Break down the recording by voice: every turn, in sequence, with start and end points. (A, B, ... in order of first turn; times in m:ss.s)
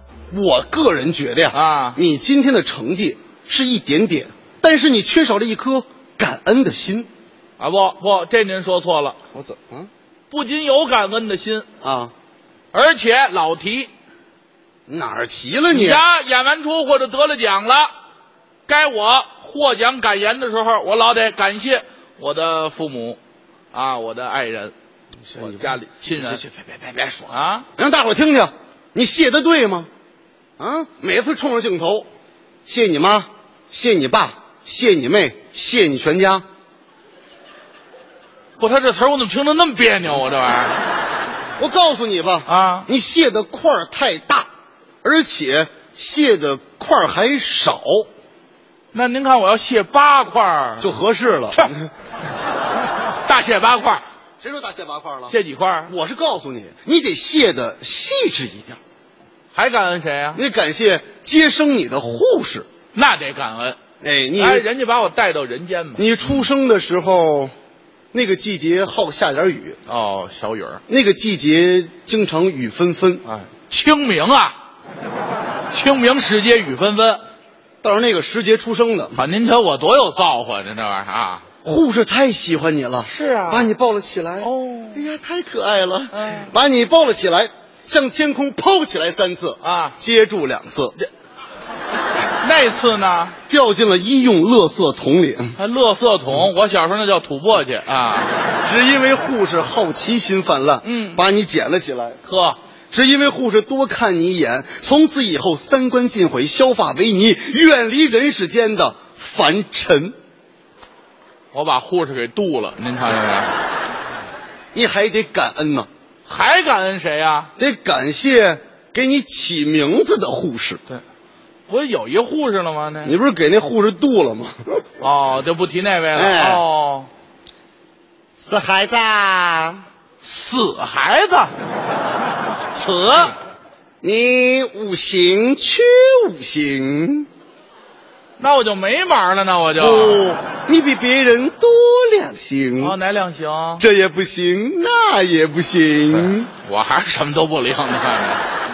0:00.3-0:07.1 A
0:01.5-0:02.0 B
0:07.6-0:09.2 B
0:09.4-0:09.9 A
0:10.3-0:11.7 B
0:11.8-0:12.1 A
0:12.7-0:13.9 B
0:14.9-0:16.0 A
0:15.7-0:17.9 B
0:18.7-0:23.2 B
0:23.7-0:24.7 B
0:25.3-0:29.9 A
0:25.4-0:26.4 B
0:27.3-0:27.7 B
0:30.6-0:32.1 A
0:32.6-0:36.4 A
0:38.6-0:40.8 B
0:41.6-0:44.5 A
0:42.5-0:42.9 B
0:45.0-0:48.1 A
0:48.9-0:50.9 B
0:50.8-0:51.9 A
0:53.2-0:54.0 B
0:54.4-0:55.4 A
0:55.3-0:55.9 B
0:55.9-0:58.8 A
0:59.5-1:00.4 B
1:00.4-1:02.7 A
1:02.9-1:03.8 B
1:04.0-1:04.6 A
1:04.4-1:06.1 B
1:06.0-1:07.5 A
1:08.1-1:09.8 A
1:09.9-1:10.8 B
1:10.9-1:13.2 A
1:13.2-1:14.6 B
1:15.7-1:17.2 B
1:17.8-1:19.2 A
1:19.2-1:21.4 B
1:21.6-1:31.0 A
1:23.1-1:23.7 B
1:24.4-1:25.0 B
1:26.1-1:26.5 B
1:29.6-1:30.0 B
1:32.4-1:33.4 B
1:33.5-1:35.6 A
1:35.6-1:38.3 B
1:38.6-1:42.2 A
1:40.8-1:41.2 B
1:42.2-1:42.6 B
1:42.9-1:50.2 A
1:51.5-1:53.5 B
1:54.7-1:55.9 A
1:56.3-1:57.5 B
1:57.6-2:00.8 A
2:01.7-2:03.2 B
2:03.0-2:04.8 A
2:05.0-2:07.1 B
2:06.1-2:06.6 A
2:08.4-2:09.8 A
2:10.2-2:11.5 B
2:12.8-2:13.4 B
2:14.0-2:17.3 A
2:18.4-2:20.2 B
2:19.8-2:23.0 A
2:22.8-2:23.8 B
2:23.8-2:26.5 A
2:26.1-2:28.4 B